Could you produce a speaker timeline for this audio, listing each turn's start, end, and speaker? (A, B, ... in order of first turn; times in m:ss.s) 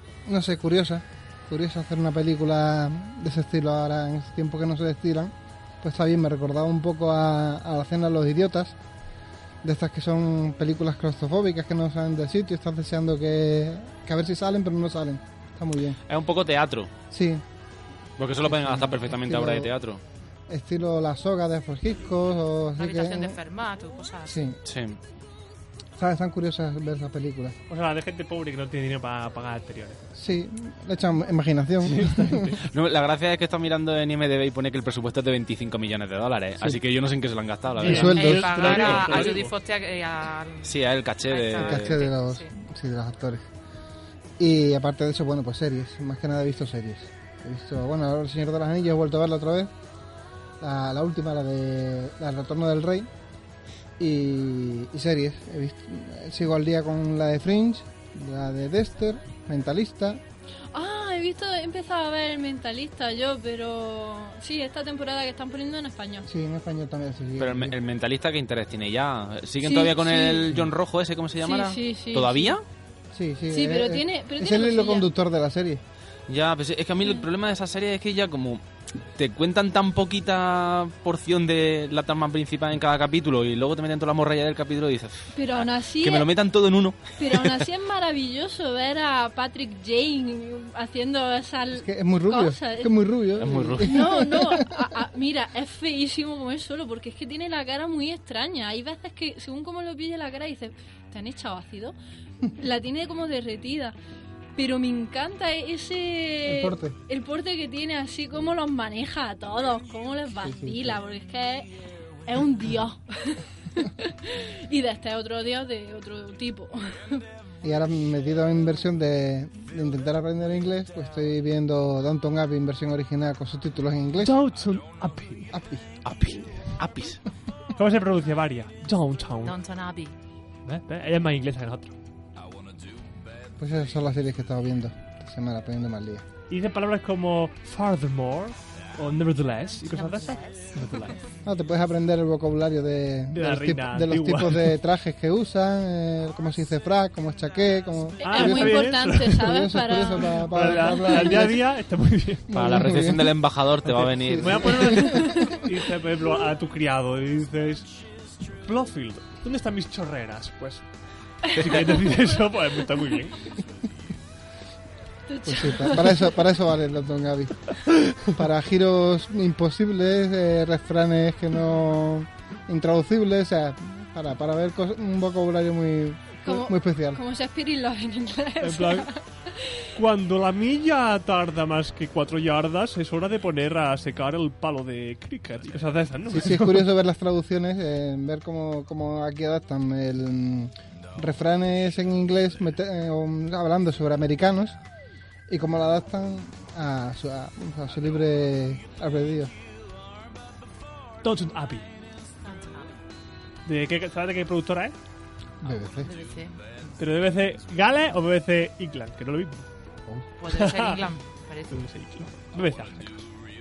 0:00.2-0:08.7 A
0:09.6-0:16.0 A
0:16.1-0:16.9 B
0:17.1-0:17.4 A
0:18.2-0:20.0 B
0:18.4-0:19.7 A
0:20.5-0:23.4 A
0:22.8-0:24.5 C
0:24.2-0:24.6 A
0:24.6-0:25.0 B
0:26.0-0:27.6 A
0:27.7-0:30.0 D
0:30.1-0:32.5 A
0:31.8-0:32.6 D
0:32.6-0:39.3 B
0:37.8-0:39.5 D
0:37.8-0:39.0 A
0:38.2-0:42.5 C
0:40.6-0:42.0 B
0:41.6-0:43.5 A
0:44.4-0:49.7 A
0:50.6-0:53.1 A
0:54.0-1:00.2 A
1:00.7-1:06.3 E
1:06.2-1:07.8 A
1:07.4-1:12.6 B
1:09.6-1:10.5 E
1:11.4-1:12.5 E
1:13.1-1:15.8 A
1:13.5-1:15.1 E
1:16.3-1:18.6 B
1:19.2-1:27.6 B
1:25.3-1:26.3 E
1:27.2-1:33.0 E
1:31.8-1:34.8 A
1:33.4-1:34.2 B
1:33.8-1:41.9 E
1:42.6-1:44.0 E
1:44.6-1:51.7 E
1:46.4-1:47.0 A
1:50.4-1:51.0 A
1:52.3-1:57.2 E
1:57.6-2:04.4 A
2:04.2-2:05.5 D
2:05.5-2:05.8 A
2:06.0-2:07.2 B
2:06.4-2:06.8 D
2:07.8-2:09.6 D
2:09.4-2:10.1 C
2:10.6-2:12.0 D
2:13.6-2:16.2 A
2:16.5-2:21.2 D
2:19.9-2:21.1 C
2:21.4-2:31.6 A
2:23.3-2:24.7 D
2:28.2-2:29.4 D
2:28.2-2:31.2 E
2:30.4-2:32.8 D
2:32.5-2:35.6 A
2:32.5-2:34.9 B
2:34.4-2:37.9 D
2:38.6-2:40.9 D
2:41.4-2:43.5 D
2:45.3-2:46.4 E
2:45.4-2:57.2 A
2:56.4-2:59.8 E
2:58.6-2:59.1 D
2:59.9-3:06.9 D
3:06.3-3:14.8 A
3:15.5-3:19.5 A
3:21.2-3:21.8 D
3:22.4-3:23.0 C
3:23.6-3:24.9 D
3:25.6-3:26.1 A
3:25.9-3:26.7 C
3:27.0-3:31.0 D
3:30.4-3:31.9 C
3:31.7-3:33.2 D